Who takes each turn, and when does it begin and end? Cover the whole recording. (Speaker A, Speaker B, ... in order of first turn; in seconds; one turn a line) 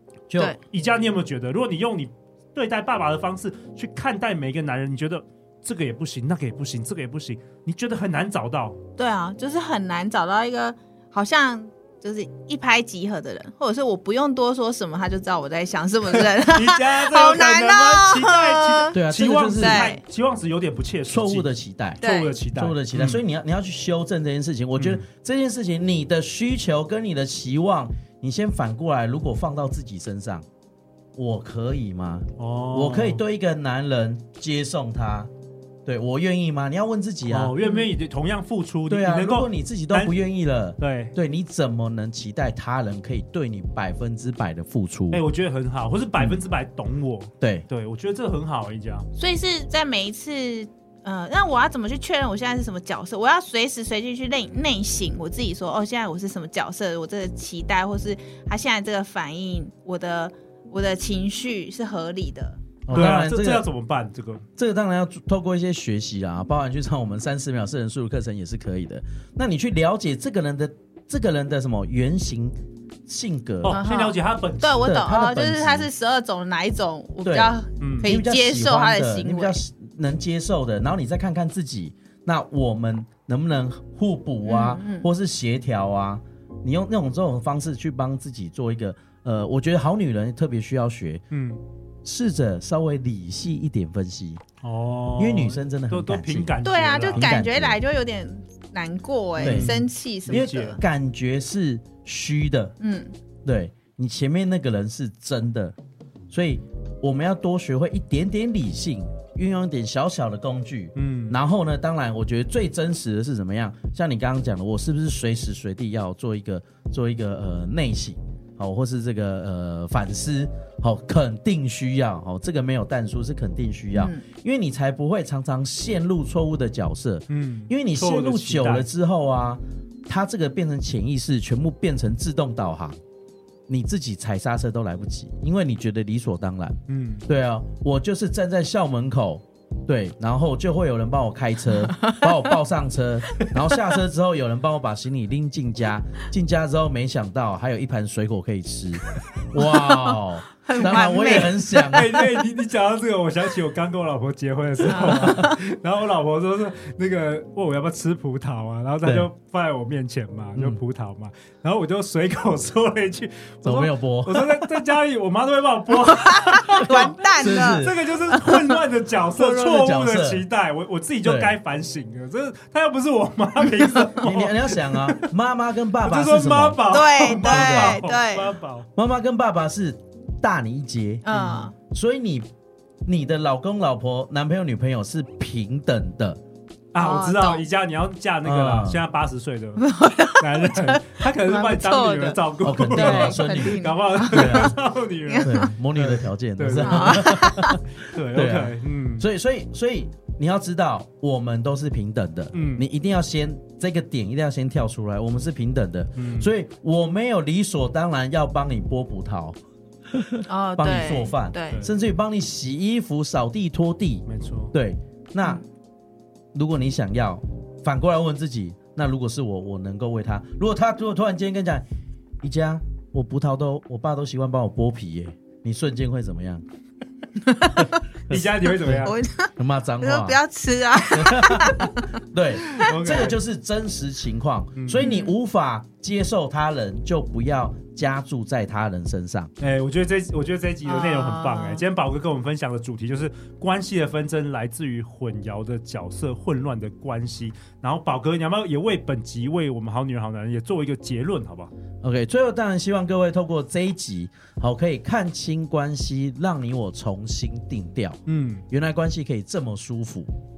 Speaker A: 0.3-0.6
Speaker B: 0.7-8.8
Speaker C: 9.0-19.0
Speaker B: 16.1-23.2
Speaker A: 18.9-19.9
Speaker C: 19.6-20.0
Speaker A: 21.1-22.0
Speaker C: 22.0-22.4
Speaker A: 22.5-30.4
Speaker B: 24.8-25.0
Speaker A: 31.2-35.3
Speaker B: 32.4-33.2
Speaker A: 35.9-37.5
Speaker B: 37.3-40.1
Speaker A: 38.9-45.2
Speaker B: 40.8-41.1
Speaker B: 45.1-49.1
Speaker A: 47.4-47.7
Speaker C: 49.2-62.6
Speaker A: 62.9-63.7
Speaker B: 62.9-64.5
Speaker A: 64.6-73.8
Speaker B: 73.6-75.0
Speaker C: 73.7-79.6
Speaker A: 74.8-75.9
Speaker A: 77.2-91.2
Speaker B: 77.8-78.1
Speaker C: 84.5-85.1
Speaker B: 91.3-91.6
Speaker A: 92.0-94.4
Speaker B: 94.6-97.3
Speaker A: 95.2-96.6
Speaker C: 96.7-100.8
Speaker A: 97.1-97.8
Speaker A: 99.4-99.7
Speaker B: 99.4-100.8
Speaker A: 100.3-102.7
Speaker C: 102.8-103.1
Speaker A: 103.5-105.8
Speaker A: 106.3-133.0
Speaker B: 111.0-111.4
Speaker C: 123.9-124.2
Speaker B: 127.3-128.9
Speaker A: 133.7-152.2
Speaker B: 136.9-137.3
Speaker C: 141.8-142.4
Speaker C: 149.8-152.2
Speaker B: 151.9-175.3
Speaker C: 154.9-155.6
Speaker A: 155.1-155.4
Speaker A: 163.6-164.7
Speaker C: 166.1-168.7
Speaker A: 166.9-168.0
Speaker A: 169.3-170.4
Speaker A: 171.2-171.6
Speaker A: 174.2-178.1
Speaker B: 176.0-178.9
Speaker C: 176.9-178.6
Speaker A: 179.0-182.5
Speaker C: 181.2-181.8
Speaker B: 181.3-181.6
Speaker A: 183.1-186.4
Speaker B: 186.9-199.2
Speaker C: 187.0-187.6
Speaker A: 188.4-189.0
Speaker C: 189.8-194.8
Speaker A: 192.6-194.8
Speaker C: 195.3-195.7
Speaker A: 195.4-197.8
Speaker C: 196.8-197.8
Speaker A: 198.3-209.6
Speaker B: 202.5-202.8
Speaker B: 206.2-206.5
Speaker A: 210.1-215.6
Speaker C: 210.5-211.8
Speaker B: 214.3-214.7
Speaker A: 216.5-221.9
Speaker A: 222.4-226.6
Speaker C: 227.4-228.0
Speaker B: 228.3-229.2
Speaker A: 228.3-230.4
Speaker C: 229.0-232.9
Speaker A: 231.1-239.5
Speaker B: 232.7-233.4
Speaker B: 234.8-235.1
Speaker C: 235.0-235.3
Speaker B: 239.6-251.7
Speaker C: 240.9-241.8
Speaker A: 252.0-260.3
Speaker B: 258.3-258.6